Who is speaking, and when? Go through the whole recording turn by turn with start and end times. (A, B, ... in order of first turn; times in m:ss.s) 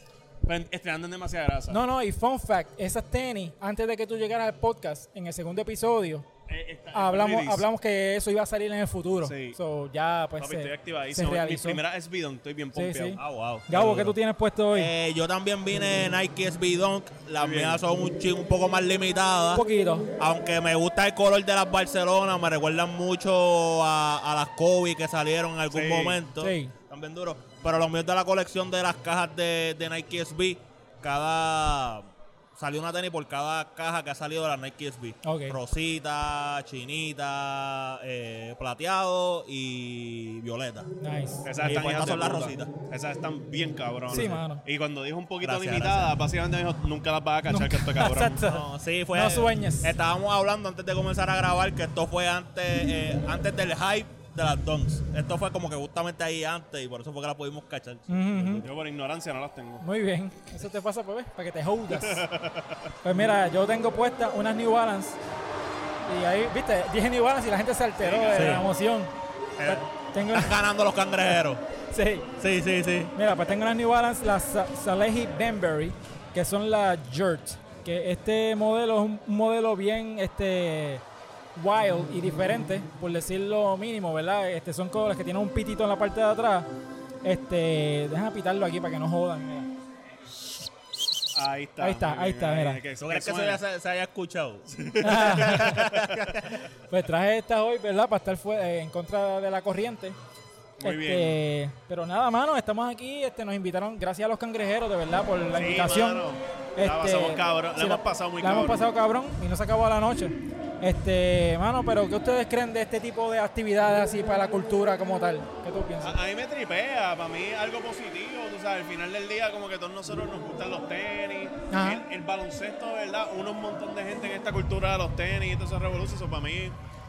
0:00.4-0:01.8 A
0:01.7-0:06.3 B
0:06.5-0:07.6 A
0:06.9-0:11.8 B
0:09.2-0:09.6 A
0:10.4-0:13.2 A
0:12.7-0:14.9 B
0:13.2-0:14.2 C
0:14.7-0:19.6 C
0:17.4-0:17.8 A
0:19.5-0:20.1 B
0:20.2-0:40.9 C
0:25.7-0:26.2 A
0:26.4-0:26.7 B
0:35.2-0:35.6 B
0:41.0-0:41.5 B
0:41.4-0:48.4 A
0:41.6-0:42.7 C
0:44.1-0:44.6 B
0:45.4-0:46.1 C
0:47.5-0:49.9 B
0:48.4-0:58.7 C
0:58.1-0:58.6 B
0:58.6-0:59.8 A
0:59.8-1:02.3 B
1:01.9-1:02.7 A
1:03.0-1:05.2 B
1:06.0-1:09.1 B
1:08.0-1:08.7 A
1:08.3-1:08.7 C
1:09.6-1:11.6 C
1:09.6-1:10.6 B
1:11.9-1:12.3 B
1:12.4-1:13.1 C
1:13.1-1:21.0 B
1:21.5-1:26.7 B
1:27.2-1:29.7 B
1:31.3-1:33.6 A
1:31.8-1:32.8 B
1:33.0-1:36.6 C
1:34.7-1:36.3 A
1:35.0-1:35.8 B
1:36.9-1:40.2 B
1:40.8-1:41.4 A
1:40.8-1:46.2 B
1:45.5-1:48.8 A
1:46.8-1:56.2 B
1:56.0-2:06.8 A
2:01.7-2:02.0 B